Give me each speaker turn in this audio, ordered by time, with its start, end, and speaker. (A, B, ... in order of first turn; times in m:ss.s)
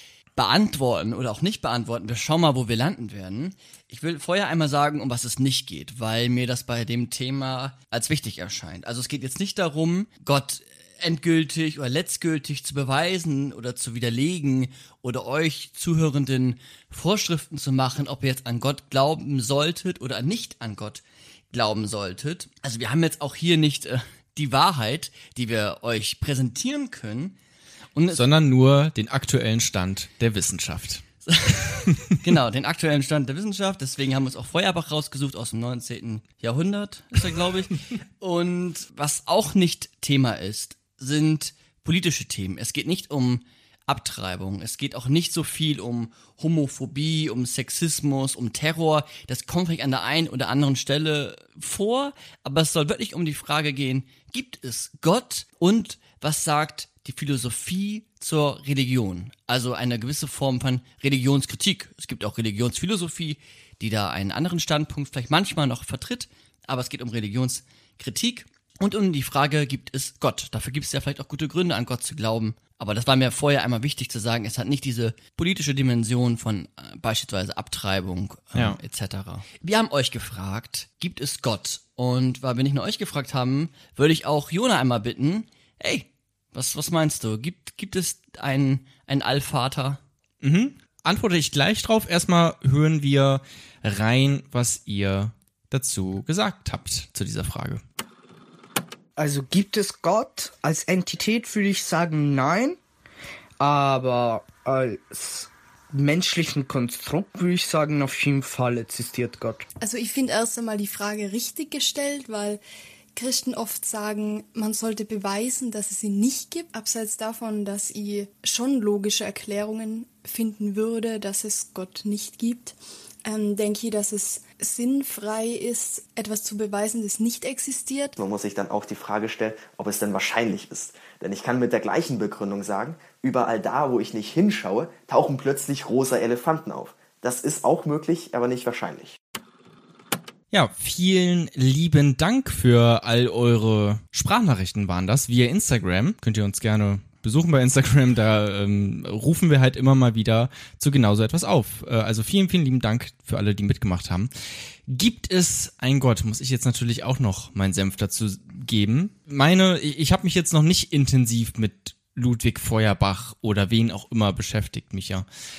0:00.3-0:27.4 A
0:27.9-0:28.2 A
0:28.1-0:31.0 B
0:31.2-1:30.0 A
0:31.9-0:32.1 B
1:30.4-1:37.8 B
1:39.2-1:42.8 C
1:43.6-1:49.7 C
1:49.8-1:52.6 D
1:53.1-2:08.2 D
2:08.2-2:19.2 E
2:20.5-2:34.3 B
2:34.8-2:45.2 B